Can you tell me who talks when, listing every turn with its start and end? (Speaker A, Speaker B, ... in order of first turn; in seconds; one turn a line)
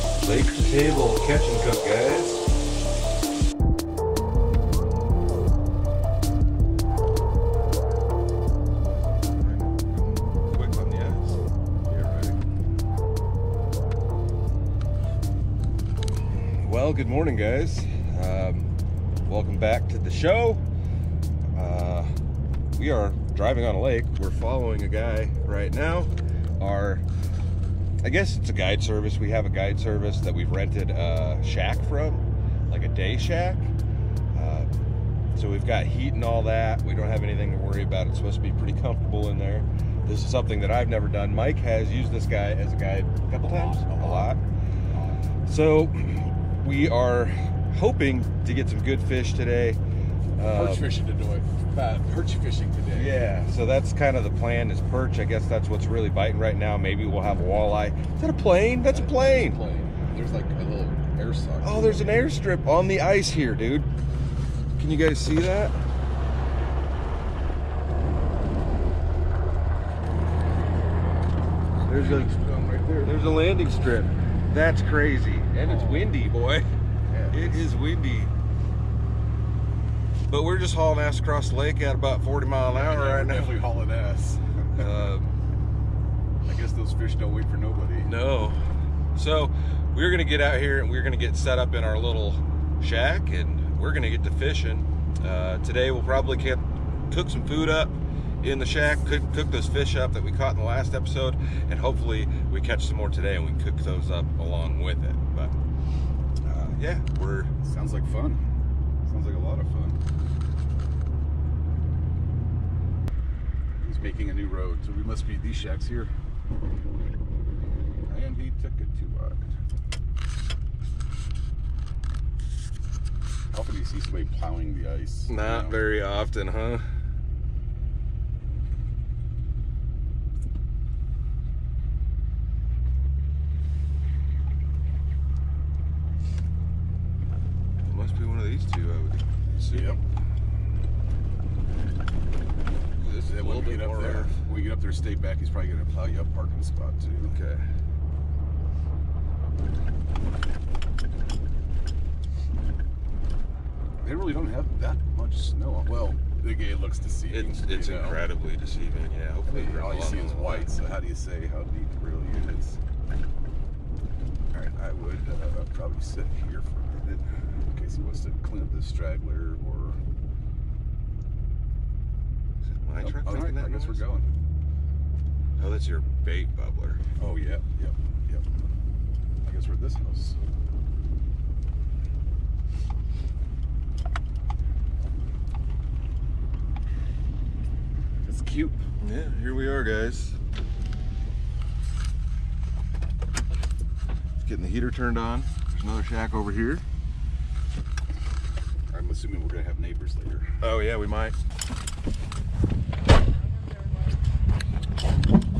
Speaker A: 0.2-2.4
Speaker A: 8.7-12.4
Speaker A: 16.5-18.7
Speaker A: 19.2-20.6
Speaker A: 21.5-22.1
Speaker A: 22.7-27.0
Speaker A: 28.0-33.7
Speaker A: 34.3-34.7
Speaker A: 35.3-44.4
Speaker B: 43.4-44.4
Speaker B: 44.9-45.2
Speaker A: 45.5-49.8
Speaker A: 50.4-50.9
Speaker B: 50.4-53.1
Speaker A: 52.9-59.6
Speaker B: 58.9-62.3
Speaker A: 61.6-63.9
Speaker A: 64.8-65.8
Speaker B: 71.8-73.2
Speaker A: 71.8-72.3
Speaker A: 73.0-76.7
Speaker B: 75.6-76.1
Speaker B: 77.1-77.7
Speaker A: 77.3-78.3
Speaker A: 80.3-83.6
Speaker B: 82.7-84.4
Speaker A: 84.7-85.3
Speaker B: 86.4-88.1
Speaker A: 88.0-88.6
Speaker A: 89.1-105.5
Speaker B: 106.4-106.7
Speaker A: 106.5-107.5
Speaker B: 107.6-108.4
Speaker B: 109.0-110.0
Speaker B: 113.8-116.1
Speaker B: 118.0-119.5
Speaker B: 123.5-125.8
Speaker A: 125.3-126.9
Speaker A: 137.8-140.0
Speaker B: 139.7-140.0
Speaker A: 143.0-144.4
Speaker B: 143.0-147.3
Speaker A: 147.2-147.6
Speaker B: 154.0-158.2
Speaker A: 157.3-160.7
Speaker B: 159.5-162.8
Speaker B: 164.5-170.0
Speaker A: 172.8-174.1
Speaker B: 173.0-174.3
Speaker A: 175.6-177.0
Speaker B: 177.2-178.4
Speaker B: 179.4-180.4
Speaker B: 188.2-188.8
Speaker A: 189.0-190.3
Speaker A: 194.4-196.8
Speaker B: 198.9-200.5
Speaker A: 200.6-201.3